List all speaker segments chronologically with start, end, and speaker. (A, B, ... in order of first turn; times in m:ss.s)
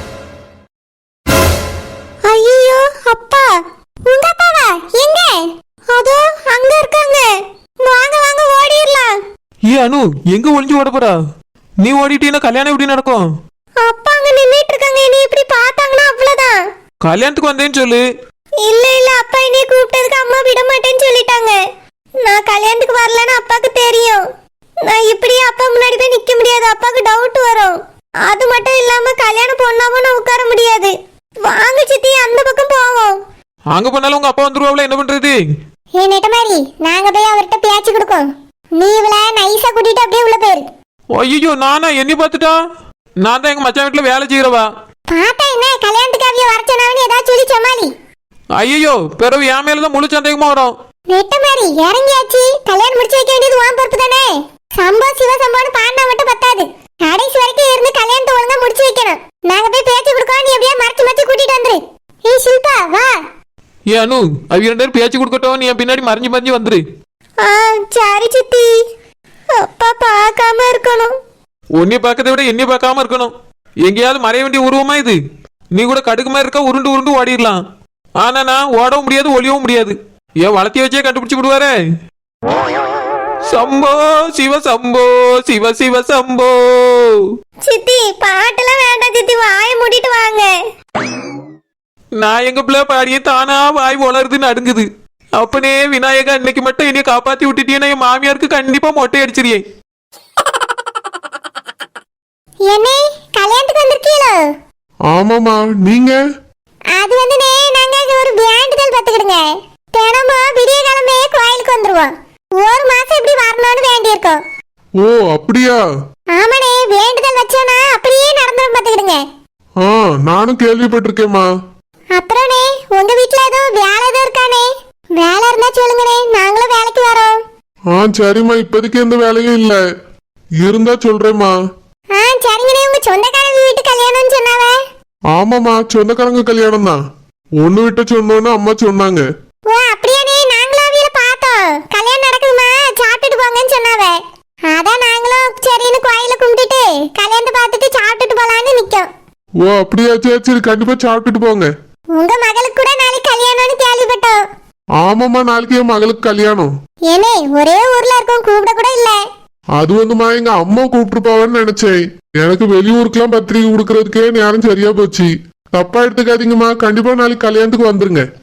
0:02.2-0:09.2 A
0:09.7-0:11.2 B
0:11.8-0:13.2 B
0:13.8-0:16.6 A
0:17.0-0:18.0 B
0:18.6-0:21.6 A
0:22.2-0:24.2 A
0:24.8-0:33.2 A
0:33.7-0:35.4 B
0:36.0-0:40.7 A
0:41.1-0:42.6 B
0:43.2-0:44.7 B
0:45.1-0:47.9 A
0:48.6-0:50.7 B
0:51.1-1:03.2 A
1:03.9-1:06.8 B
1:07.4-1:08.7 A
1:09.5-1:11.2 A
1:11.8-1:15.2 B
1:15.7-1:17.6 B
1:18.2-1:21.8 B
1:23.5-1:27.2 B
1:27.6-1:30.5 A
1:32.2-1:39.6 B
1:42.7-1:44.4 A
1:45.1-1:46.1 C
1:46.9-1:54.4 A
1:55.0-1:55.8 C
1:56.3-1:59.2 A
1:59.8-2:01.4 C
2:02.1-2:07.4 A
2:07.9-2:09.8 C
2:10.6-2:11.5 C
2:12.2-2:14.8 A
2:15.3-2:17.0 C
2:17.6-2:19.2 C
2:19.7-2:24.2 A
2:24.7-2:29.1 A
2:29.6-2:31.7 C
2:32.2-2:34.4 A
2:35.0-2:36.7 C
2:37.1-2:39.2 A
2:39.8-2:48.2 C